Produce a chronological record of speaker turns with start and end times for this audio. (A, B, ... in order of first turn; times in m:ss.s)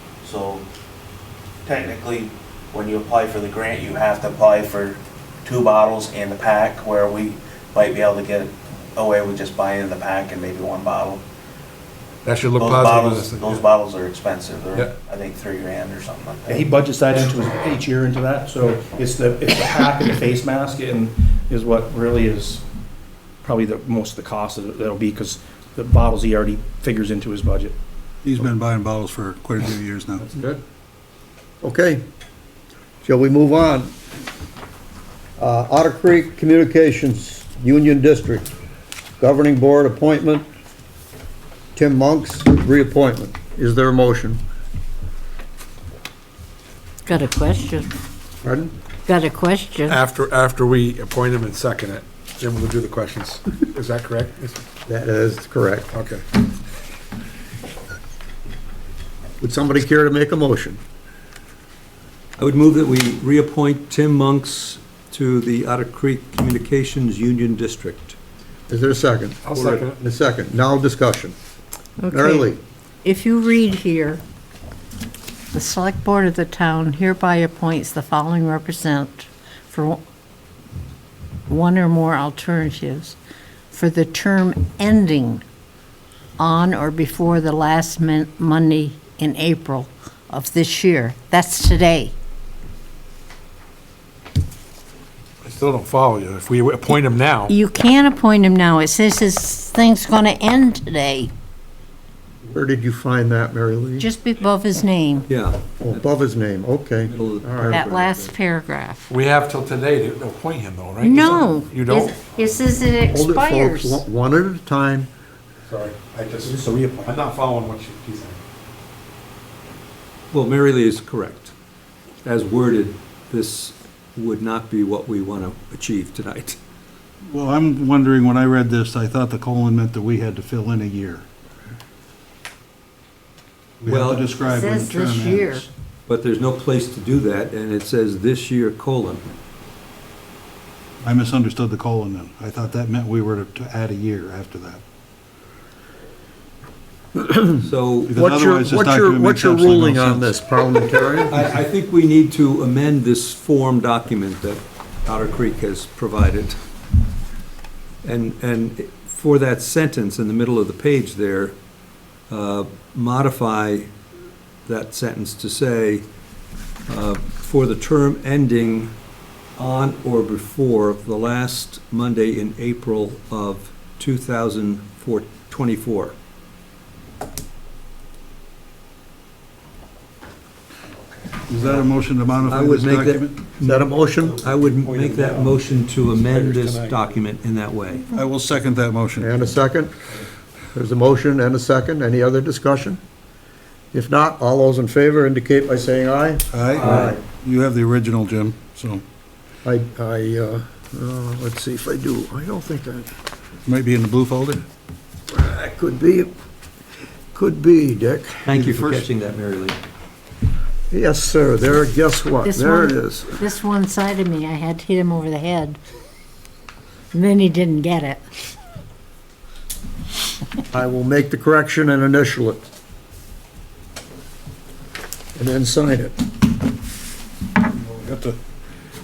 0:00.2-0:00.6 A
0:01.6-0:11.2 A
0:12.2-0:13.6 B
0:12.6-0:16.6 A
0:16.5-0:22.6 C
0:23.4-0:27.8 C
0:28.2-0:30.3 D
0:31.6-0:32.0 E
0:33.0-0:33.9 E
0:35.4-0:38.5 E
0:39.2-0:40.4 E
0:41.7-0:44.4 E
0:47.0-0:47.9 F
0:48.4-0:48.7 E
0:49.0-0:50.0 F
0:49.9-0:54.6 B
0:54.8-0:55.9 E
0:55.9-0:56.2 B
0:59.4-1:00.8 E
1:02.4-1:08.2 G
1:08.7-1:11.3 E
1:09.5-1:10.0 B
1:09.6-1:09.8 G
1:12.0-1:12.5 F
1:12.1-1:12.6 E
1:13.0-1:14.2 F
1:15.5-1:20.0 F
1:21.5-1:23.2 F
1:23.7-1:25.4 F
1:26.4-1:32.1 F
1:35.4-1:37.5 B
1:37.5-1:41.3 F
1:42.4-1:44.1 E
1:44.0-1:45.3 F
1:45.3-1:46.0 G
1:45.8-1:48.0 E
1:47.1-1:48.3 G
1:47.7-1:49.1 F
1:49.1-1:52.2 B
1:51.0-1:54.0 F
1:53.1-1:55.1 E
1:55.7-1:56.5 B
1:56.4-1:57.2 C
1:57.0-1:58.4 B
2:00.3-2:01.5 G
2:02.2-2:06.6 G
2:07.3-2:11.2 D
2:13.8-2:15.7 D
2:13.9-2:14.3 G
2:14.4-2:15.7 F
2:16.1-2:19.4 G
2:21.0-2:24.8 D
2:27.2-2:27.6 E
2:27.6-2:28.1 G
2:28.1-2:30.3 D
2:28.1-2:31.4 E
2:31.3-2:36.6 G
2:38.0-2:41.6 G
2:42.3-2:43.9 G
2:44.6-2:46.0 G
2:46.9-2:48.9 G
2:49.6-2:56.1 G
3:01.5-3:03.4 D
3:02.4-3:08.0 G
3:03.6-3:04.4 E
3:04.8-3:05.4 D
3:06.4-3:06.8 D
3:08.1-3:09.3 D
3:09.2-3:09.9 E
3:10.7-3:13.0 E
3:13.9-3:17.2 E
3:16.5-3:19.0 D
3:16.8-3:17.1 G
3:19.6-3:23.1 E
3:23.6-3:24.6 D
3:25.3-3:26.3 E
3:27.3-3:29.1 E
3:28.4-3:29.8 G
3:30.9-3:33.4 E
3:32.4-3:35.8 F
3:37.1-3:38.2 F
3:40.7-3:42.6 E
3:45.4-3:46.1 E
3:47.7-3:48.4 D